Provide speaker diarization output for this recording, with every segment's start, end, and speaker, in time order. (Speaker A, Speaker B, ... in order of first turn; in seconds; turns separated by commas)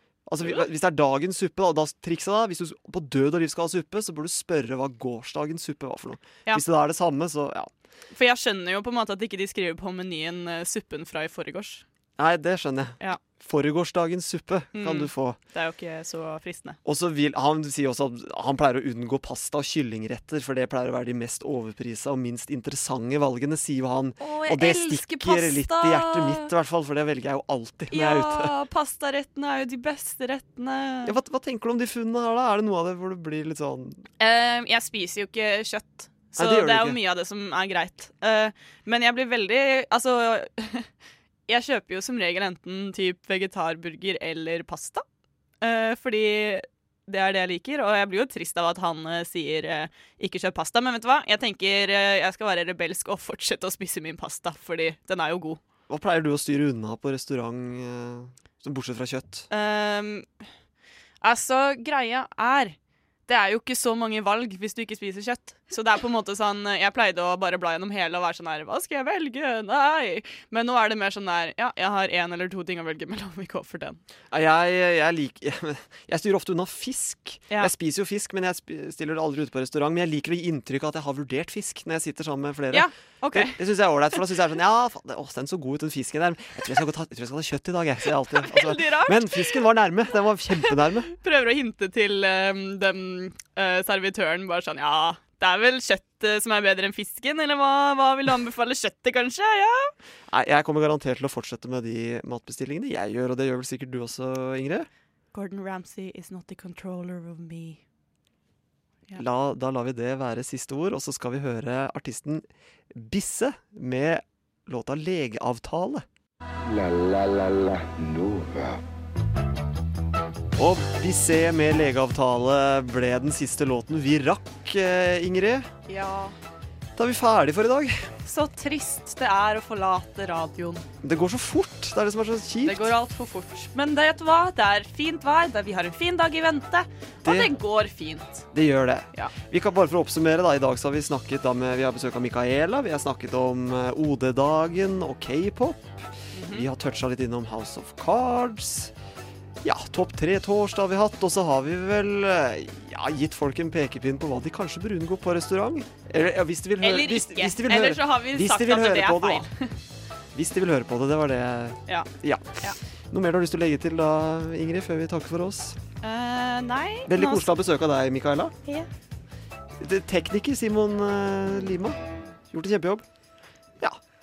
Speaker A: 0.3-7.7, Speaker B: 8.1-11.8, Speaker A: 12.2-15.4, Speaker B: 14.8-16.8, Speaker A: 16.9-28.5, Speaker B: 24.2-26.5, Speaker B: 27.9-31.1, Speaker A: 31.1-34.0, Speaker B: 34.2-40.9, Speaker A: 36.4-37.0, Speaker B: 41.5-45.0, Speaker B: 45.6-55.6, Speaker A: 55.9-59.5, Speaker B: 59.5-60.3, Speaker B: 61.2-62.8, Speaker B: 63.3-74.0, Speaker A: 74.3-91.1, Speaker B: 82.7-83.6, Speaker B: 88.4-89.6, Speaker B: 91.1-99.9, Speaker A: 100.3-104.9, Speaker B: 105.3-107.8, Speaker A: 109.2-116.0, Speaker C: 116.7-118.8, Speaker A: 120.6-125.7, Speaker B: 125.9-126.4, Speaker A: 127.0-128.1, Speaker B: 128.2-130.8, Speaker A: 131.0-132.9, Speaker B: 132.6-138.5, Speaker A: 137.2-137.5, Speaker A: 138.5-148.9, Speaker B: 146.3-146.7, Speaker A: 149.6-159.5, Speaker B: 156.8-159.7, Speaker A: 160.3-165.8, Speaker B: 166.0-167.5, Speaker A: 167.1-168.6, Speaker A: 169.8-172.0, Speaker A: 172.5-173.1